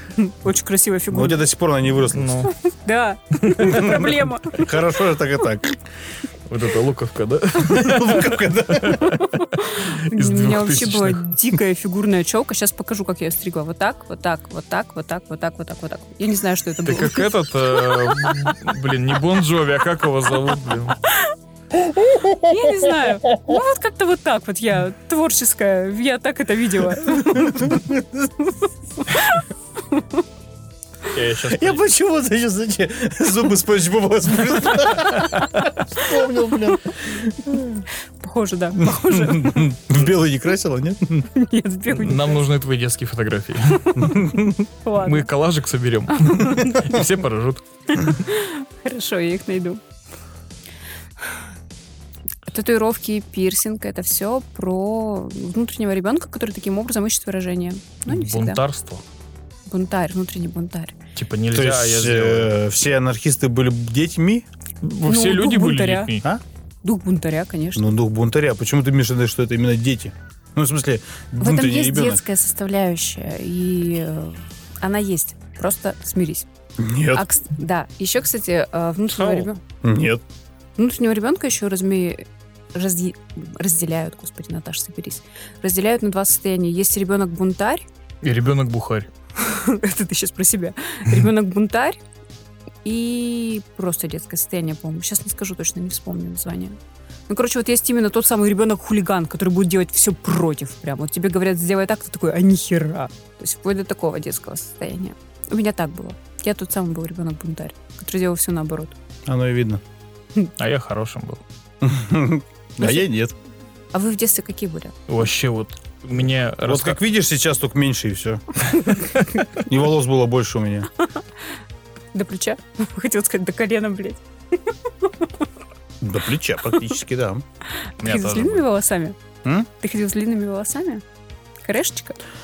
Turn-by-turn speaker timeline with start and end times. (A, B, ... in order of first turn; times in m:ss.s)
0:00.1-0:01.4 A
0:01.1-0:02.5 B
0:02.1-0:02.5 C
0:02.5-0:04.8 A
0:03.4-0:04.0 C
0:03.7-0:05.8 B
0:06.5-0:11.2 C
0:07.6-0:09.2 B
0:09.2-0:18.4 A
0:16.8-0:21.0 C
0:22.1-0:22.6 B
0:22.4-0:27.8 A
0:27.2-0:28.3 B
0:29.0-0:30.2 A
0:31.1-0:31.8 C
0:31.5-0:37.8 B
0:38.2-0:39.7 A
0:38.8-0:41.3 B
0:41.3-0:42.4 A
0:41.9-0:44.0 C
0:43.7-0:45.3 A
0:44.0-0:44.5 B
0:45.0-0:48.2 C
0:46.2-0:46.9 A
0:48.0-0:49.8 A
0:52.5-0:58.6 A
0:58.0-0:59.0 C
0:59.7-1:00.9 A
1:01.2-1:02.6 C
1:01.5-1:04.4 B
1:04.8-1:06.2 C
1:05.0-1:06.1 A
1:06.8-1:07.9 A
1:07.8-1:12.2 B
1:11.4-1:16.5 A
1:16.8-1:17.2 B
1:17.1-1:19.6 A
1:19.1-1:19.5 C
1:19.8-1:20.2 B
1:20.8-1:27.8 A
1:28.2-1:29.1 C
1:29.4-1:32.0 A
1:32.8-1:36.8 A
1:37.3-1:49.0 A
1:49.2-1:49.8 B
1:50.6-1:51.4 C
1:51.8-1:53.3 B
1:53.9-1:55.0 A
1:55.1-1:57.0 C
1:56.6-2:00.9 B
2:02.1-2:05.3 A
2:06.0-2:07.4 B
2:08.0-2:08.6 C
2:08.0-2:09.2 A
2:09.4-2:09.7 B
2:09.8-2:11.0 A
2:11.6-2:12.2 A